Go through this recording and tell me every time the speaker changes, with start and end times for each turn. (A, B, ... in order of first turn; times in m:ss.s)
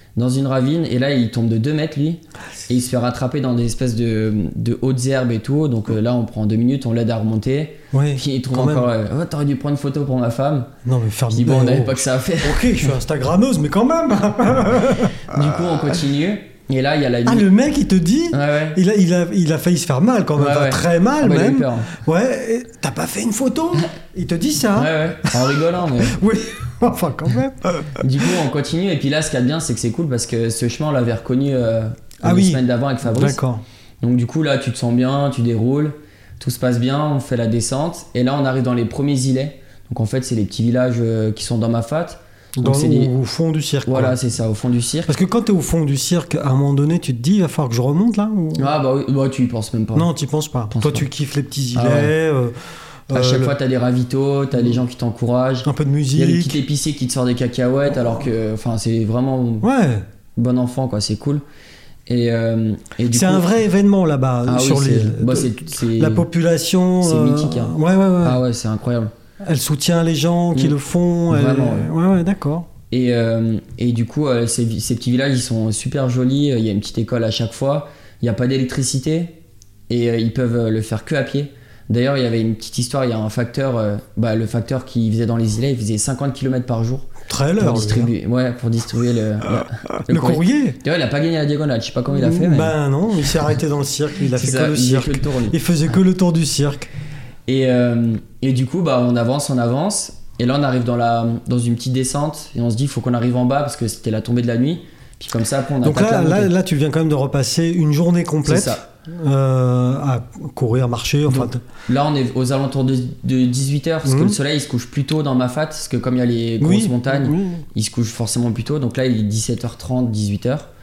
0:00.2-0:10.7 A
0:07.9-0:08.9 B
0:10.8-0:15.3 B
0:11.3-0:13.0 A
0:15.2-0:17.5 A
0:17.2-0:28.0 B
0:18.3-0:18.8 A
0:20.4-0:21.9 A
0:24.7-0:26.2 A
0:28.0-0:33.4 A
0:32.2-0:33.6 B
0:34.0-0:43.1 A
0:42.6-0:44.1 B
0:43.8-0:45.1 A
0:45.1-0:48.7 B
0:48.6-0:50.1 A
0:49.9-0:53.5 B
0:50.7-0:51.1 A
0:51.7-0:52.1 A
0:53.1-0:59.6 A
0:55.6-0:56.6 B
0:59.6-1:00.0 B
1:00.4-1:01.4 A
1:02.1-1:03.5 A
1:03.1-1:08.4 B
1:04.4-1:06.3 A
1:07.0-1:09.1 A
1:09.4-1:12.7 B
1:11.3-1:11.9 A
1:12.9-1:19.4 A
1:19.9-1:32.7 A
1:27.3-1:28.1 B
1:30.1-1:30.8 B
1:32.1-1:36.9 B
1:34.3-1:35.6 A
1:37.5-1:46.5 A
1:45.8-1:51.6 B
1:48.4-1:48.8 A
1:51.3-2:00.7 A
1:54.0-1:54.4 B
1:56.6-1:57.6 B